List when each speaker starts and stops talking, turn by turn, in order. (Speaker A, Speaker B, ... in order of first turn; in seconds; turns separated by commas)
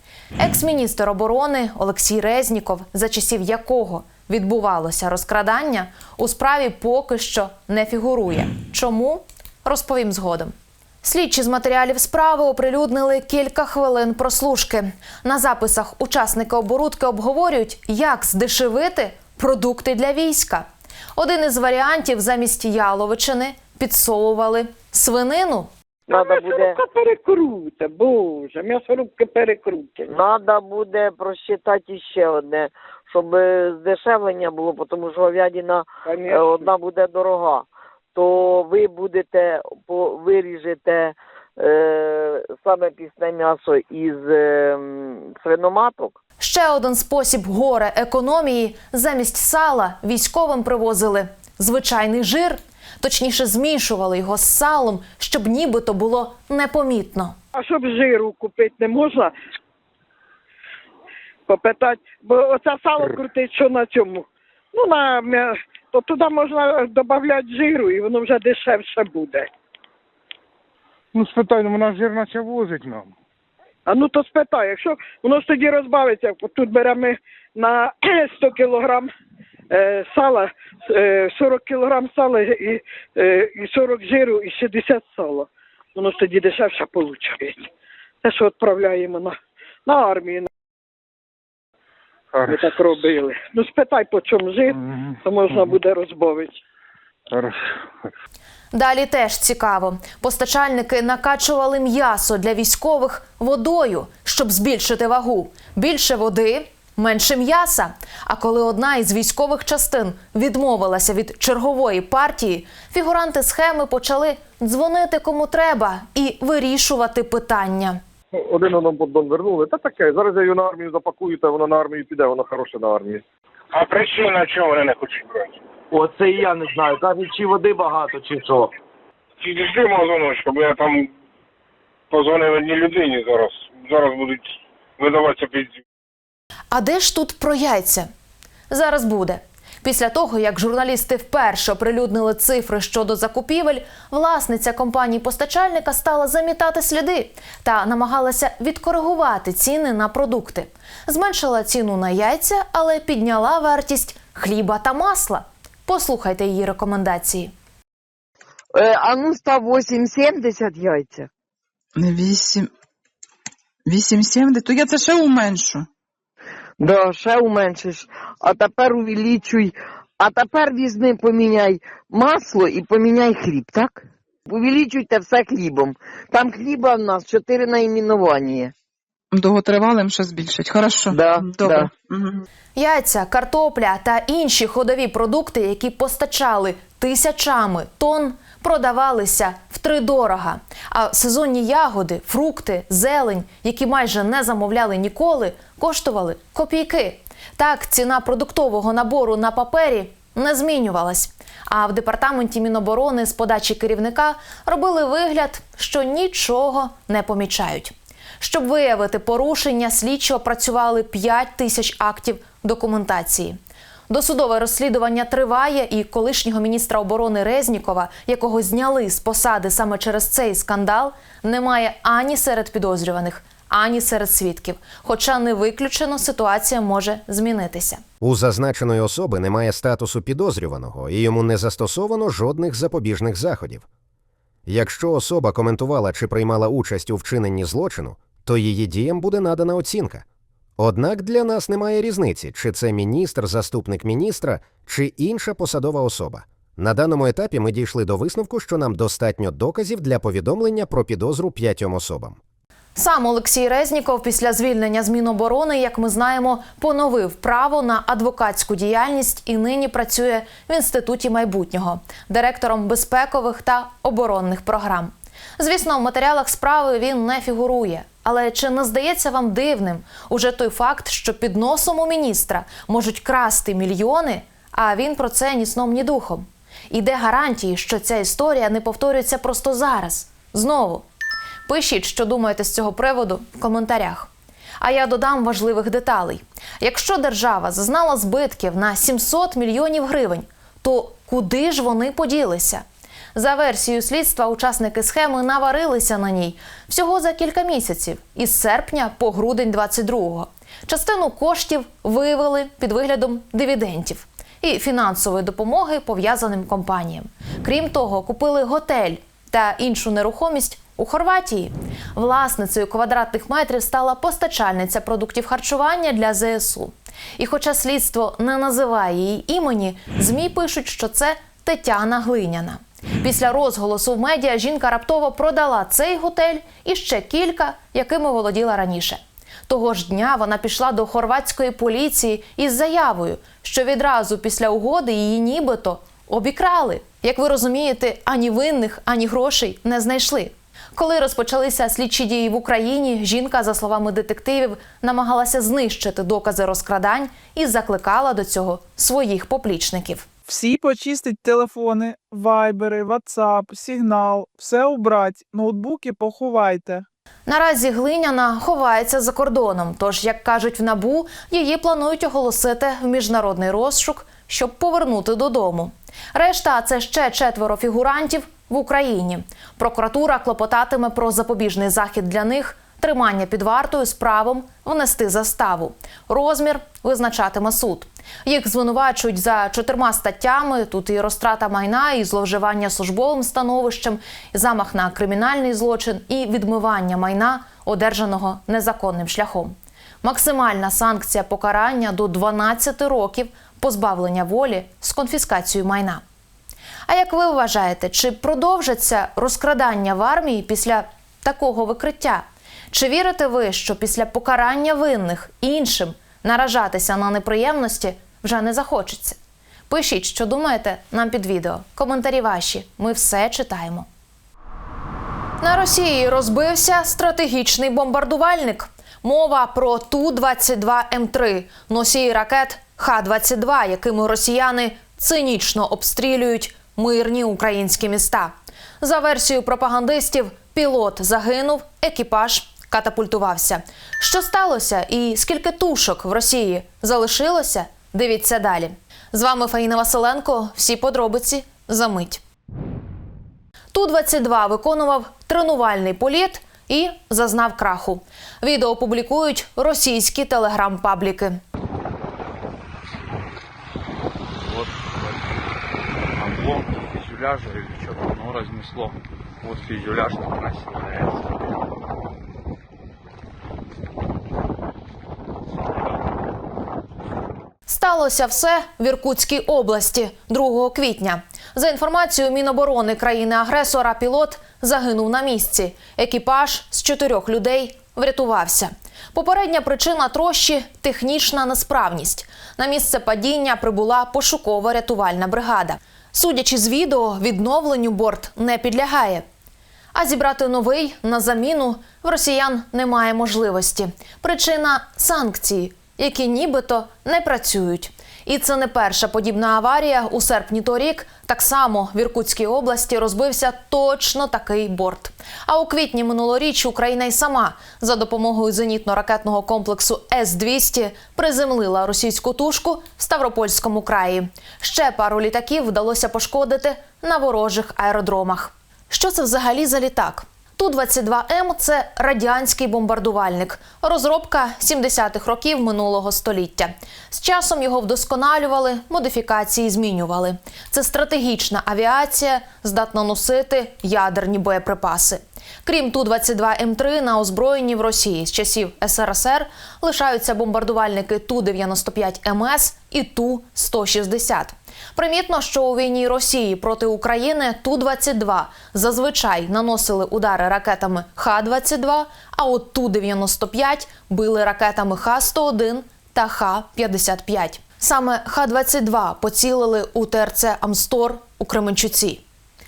Speaker A: 0.4-25.7, Speaker B: 26.1-26.8, Speaker C: 26.1-30.1, Speaker B: 30.1-46.2, Speaker C: 36.0-36.7, Speaker A: 46.4-57.4, Speaker C: 57.5-59.3, Speaker C: 61.5-69.5, Speaker D: 71.1-73.1, Speaker C: 73.9-79.1, Speaker C: 79.7-87.7, Speaker C: 88.2-90.5, Speaker D: 92.3-92.6, Speaker C: 92.5-96.6, Speaker D: 94.8-95.8, Speaker D: 97.3-97.7, Speaker A: 98.7-118.0, Speaker E: 118.5-123.2, Speaker F: 123.7-125.5, Speaker B: 125.9-128.7, Speaker F: 129.4-131.1, Speaker F: 132.1-135.8, Speaker A: 136.7-138.1, Speaker A: 138.7-157.5, Speaker B: 158.7-161.3, Speaker G: 161.9-162.7, Speaker G: 163.8-165.9, Speaker B: 166.8-178.7, Speaker G: 179.3-182.4, Speaker B: 181.1-181.9, Speaker A: 182.8-213.6, Speaker A: 214.1-228.0, Speaker H: 228.2-233.8, Speaker H: 234.7-240.2, Speaker H: 240.8-252.4, Speaker A: 252.9-281.0, Speaker A: 281.6-292.8, Speaker A: 293.3-350.3, Speaker I: 350.5-357.1, Speaker A: 357.5-396.2, Speaker A: 397.1-409.4, Speaker A: 409.9-414.1, Speaker A: 415.6-442.4, Speaker A: 443.9-451.6, Speaker J: 456.4-461.3, Speaker A: 467.9-489.4, Speaker A: 490.1-562.4